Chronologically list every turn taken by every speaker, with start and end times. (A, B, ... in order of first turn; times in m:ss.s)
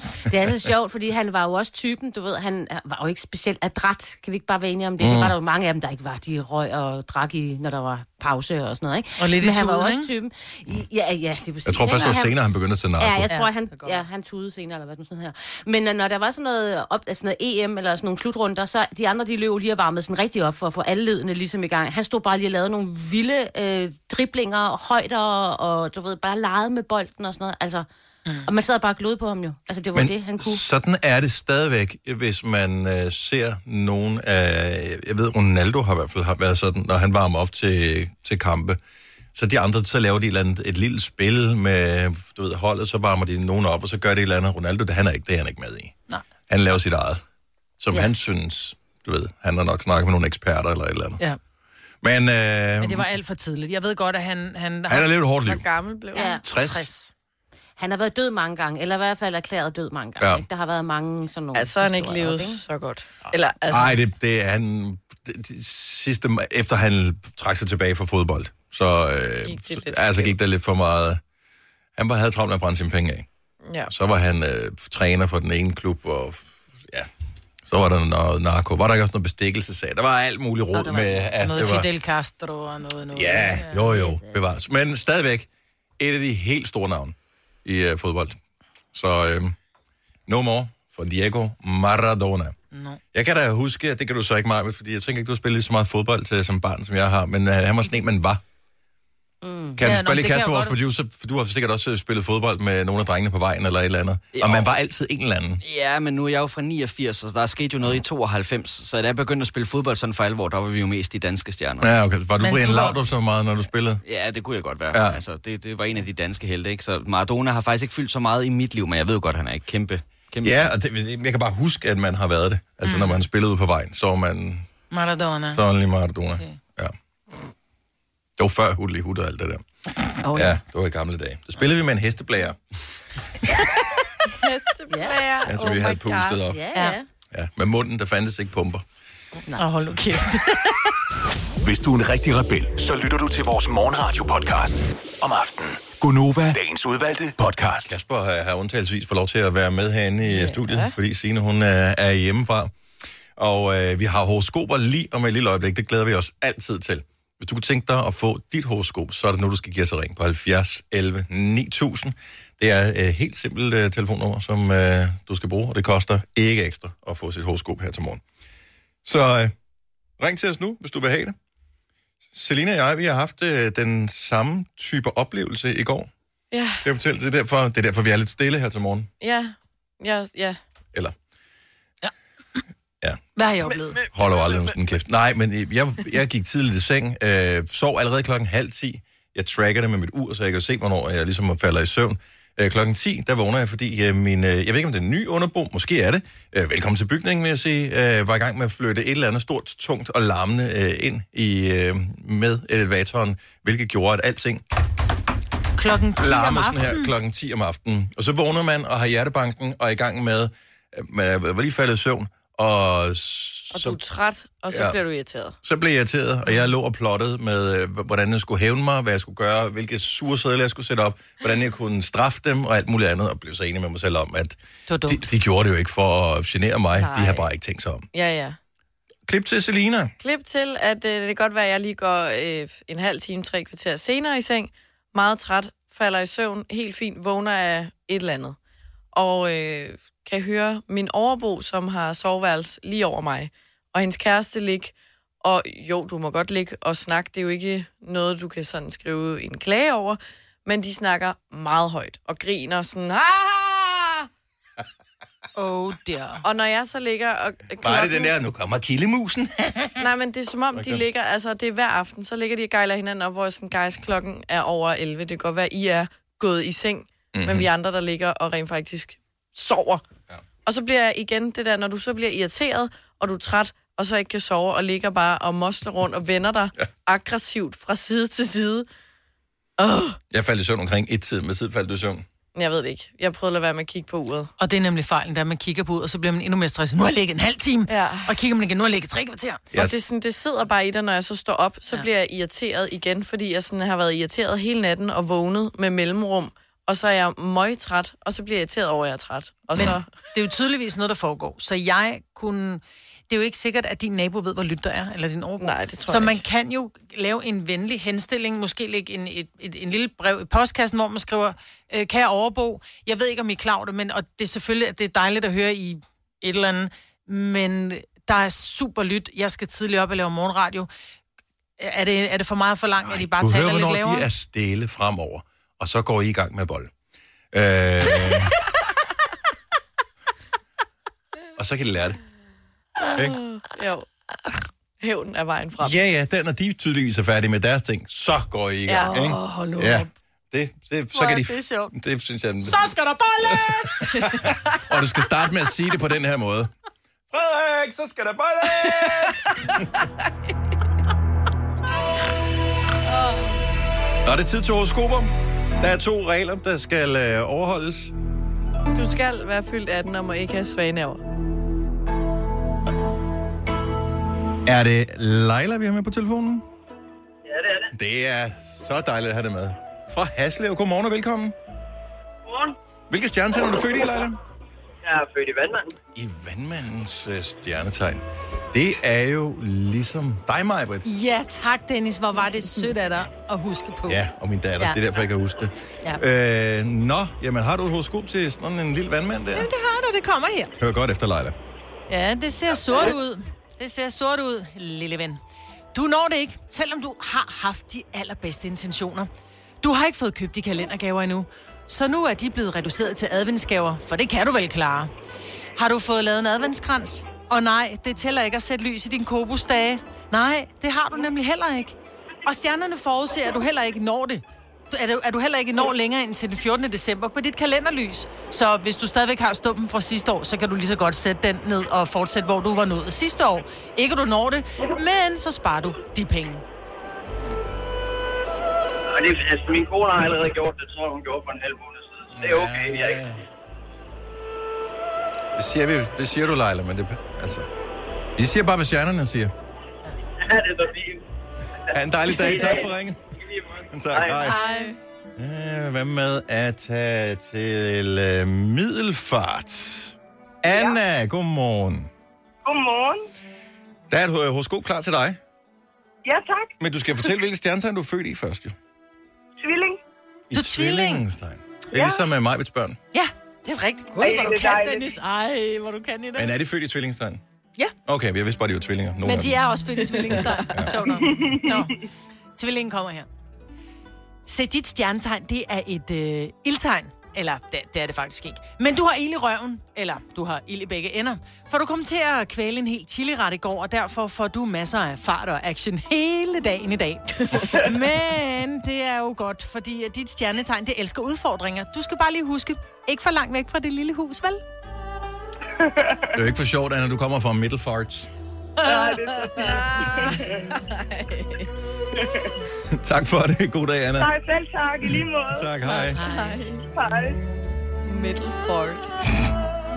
0:00.2-0:12.4 A
0:05.0-0:05.4 B
0:09.2-0:10.1 C
0:11.6-0:13.3 B
0:13.0-0:27.9 A
0:13.3-0:14.0 C
0:28.4-0:30.6 A
0:29.9-0:38.8 B
0:39.4-0:46.0 B
0:46.5-0:47.2 B
0:47.8-0:51.2 B
0:52.0-0:53.1 B
0:52.8-0:55.1 C
0:54.9-0:55.7 B
0:55.4-0:56.2 D
0:56.1-0:57.1 C
0:56.1-0:56.4 A
0:56.4-0:56.9 B
0:57.8-1:02.6 A
1:00.2-1:00.5 B
1:01.5-1:04.0 D
1:03.7-1:11.2 B
1:09.5-1:10.3 D
1:12.0-1:13.3 B
1:13.7-1:13.9 D
1:13.9-1:17.1 B
1:17.6-1:21.9 B
1:20.7-1:23.9 C
1:23.1-1:25.5 B
1:23.7-1:24.4 A
1:26.0-1:28.4 B
1:28.9-1:29.6 B
1:30.3-1:32.6 B
1:32.7-1:33.0 C
1:33.1-1:38.4 B
1:39.4-1:39.8 A
1:39.8-1:45.6 B
1:39.8-1:40.8 C
1:44.3-1:44.8 E
1:45.6-1:51.9 E
1:51.8-1:54.0 B
1:52.4-1:53.0 C
1:54.0-2:00.7 E
1:54.9-1:55.2 B
2:00.4-2:04.7 B
2:02.8-2:03.2 C
2:04.9-2:05.6 C
2:05.5-2:06.9 B
2:06.3-2:06.6 C
2:08.4-2:09.6 B
2:10.3-2:10.6 A
2:10.3-2:12.6 B
2:14.3-2:16.4 D
2:14.9-2:15.2 A
2:15.4-2:16.6 B
2:16.4-2:17.0 A
2:17.3-2:18.8 B
2:19.6-2:20.9 C
2:21.6-2:27.9 F
2:27.8-2:32.7 B
2:30.2-2:31.0 D
2:33.4-2:48.2 B
2:49.0-2:49.5 B
2:50.2-2:51.4 B
2:52.3-2:56.1 B
2:56.5-2:56.8 D
2:56.8-2:59.1 B
2:59.2-3:00.6 D
3:03.4-3:04.0 C
3:04.0-3:24.6 B
3:25.8-3:27.1 C
3:26.2-3:34.0 B
3:33.7-3:35.6 D
3:34.7-3:35.0 B
3:35.6-3:48.1 B
3:44.9-3:45.3 C
3:47.0-3:47.5 D
3:48.1-3:48.6 D
3:49.3-3:50.1 B
3:50.2-3:58.6 D
3:59.1-4:14.3 D
4:15.6-4:16.4 C
4:16.4-4:18.4 D
4:17.8-4:20.1 B
4:20.0-4:30.0 D
4:20.7-4:21.0 B
4:27.3-4:27.7 B
4:30.6-4:38.9 D
4:39.8-4:40.2 D
4:40.3-4:42.2 B
4:42.6-4:44.5 D
4:44.6-4:49.6 C
4:47.9-4:48.3 D
4:49.7-5:00.1 D
4:59.8-5:20.9 C
5:05.6-5:06.4 D
5:21.8-5:24.3 C
5:23.0-5:26.9 B
5:27.5-5:28.6 B
5:31.6-5:32.2 B
5:33.2-5:34.1 D
5:35.0-5:36.0 D
5:35.8-5:42.9 B
5:38.9-5:39.2 D
5:39.0-5:40.1 C
5:41.1-5:41.9 C
5:42.6-5:44.2 C
5:43.4-5:46.7 B
5:44.2-5:44.4 D
5:47.3-5:49.5 B
5:48.8-5:49.1 D
5:53.1-5:53.5 D
5:54.2-5:58.2 B
5:58.9-6:01.2 D
6:04.6-6:06.7 B
6:07.5-6:07.9 G
6:07.9-6:11.6 B
6:12.5-6:12.7 G
6:13.1-6:14.4 B
6:15.0-6:15.9 G
6:16.1-6:21.0 B
6:21.0-6:24.2 C
6:24.1-6:29.7 B
6:29.5-6:30.8 C
6:30.8-6:31.6 B
6:32.1-6:35.4 C
6:35.9-6:39.3 C
6:39.8-6:45.1 C
6:45.8-7:06.6 C
7:09.1-7:13.2 G
7:12.4-7:13.4 B
7:15.6-7:17.7 B
7:18.4-7:19.5 B
7:20.4-7:21.2 G
7:21.9-7:23.2 B
7:22.3-7:24.6 G
7:23.9-7:24.6 B
7:24.4-7:25.0 D
7:25.4-7:32.1 B
7:30.7-7:31.0 H
7:32.6-7:33.3 H
7:34.1-7:35.4 B
7:36.2-7:36.7 H
7:36.8-7:38.8 B
7:39.6-7:40.0 H
7:40.5-7:43.0 B
7:40.5-7:41.2 C
7:42.0-7:42.2 H
7:43.1-7:46.5 C
7:44.2-7:45.0 H
7:46.4-7:47.4 B
7:48.1-7:49.6 B
7:49.2-7:52.0 C
7:50.2-7:50.8 D
7:50.7-7:51.0 B
7:52.6-7:53.3 C
7:54.5-8:14.6 C
8:16.3-8:18.3 B
8:18.8-8:19.6 C
8:20.2-8:21.7 D
8:22.8-8:24.3 B
8:24.2-8:25.8 H
8:25.0-8:26.2 B
8:25.9-8:26.6 C
8:26.2-8:26.8 D
8:26.9-8:27.4 H
8:28.0-8:29.1 D